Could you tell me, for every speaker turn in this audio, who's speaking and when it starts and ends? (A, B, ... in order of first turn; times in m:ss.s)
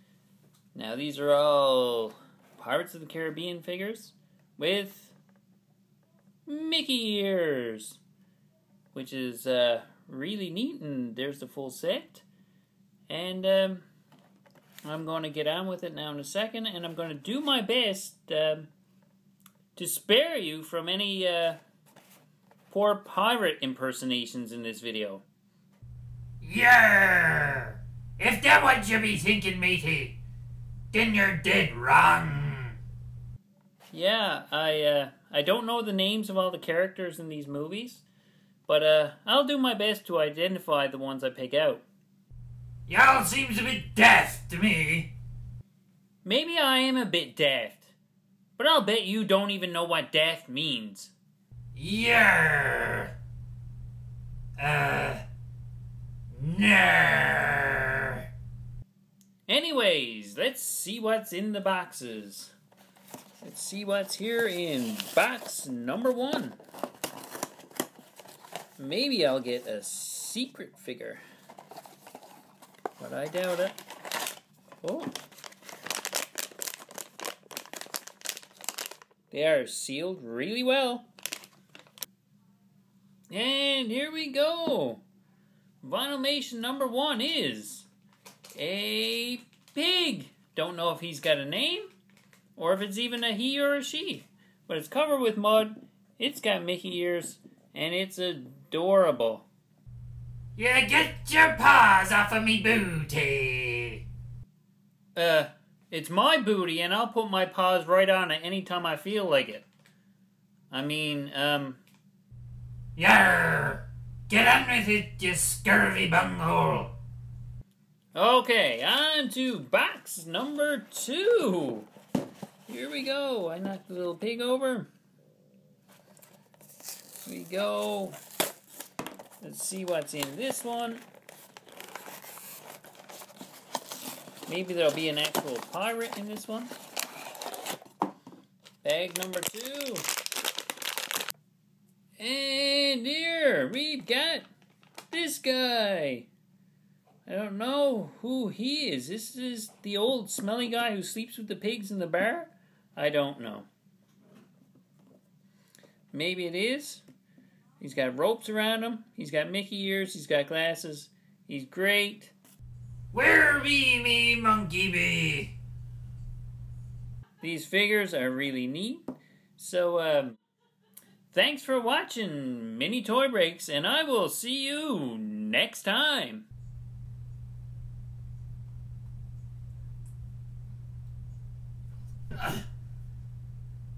0:00.8-0:05.2 A
0:06.5-0:08.0 A
0:08.9-0:12.2 A
0:13.1-0:13.9 A
0:14.8-0:18.7 A
0:19.8-0:21.6 A
0:22.7-0:25.2 A
0:26.4-0:30.2 B
0:30.9-0:32.8 B
0:33.9-0:38.0 A
0:38.7-0:41.8 A
0:42.9-0:45.1 B
0:46.2-0:47.9 A
0:48.6-0:51.1 A
0:51.8-0:53.1 B
0:54.6-0:55.2 B
0:56.3-0:58.3 B
0:59.5-1:02.5 A
1:03.4-1:06.6 A
1:08.8-1:11.2 A
1:13.0-1:13.8 A
1:14.8-1:15.1 A
1:19.3-1:21.1 A
1:23.3-1:25.0 A
1:25.8-1:27.9 A
1:28.6-1:31.9 A
1:32.6-1:39.5 A
1:40.6-1:44.0 B
1:45.2-1:49.7 A
1:50.7-1:51.8 A
1:53.0-1:56.9 B
1:58.2-2:01.9 A
2:02.7-2:04.9 A
2:07.2-2:08.2 A
2:09.4-2:11.0 A
2:14.5-2:16.8 A
2:18.8-2:20.1 A
2:22.2-2:24.5 A
2:25.1-2:26.3 A
2:27.3-2:33.7 A
2:36.1-2:37.0 A
2:37.8-2:42.3 A
2:43.1-2:45.5 B
2:47.4-2:49.0 A
2:49.6-2:50.4 A
2:51.3-2:56.5 A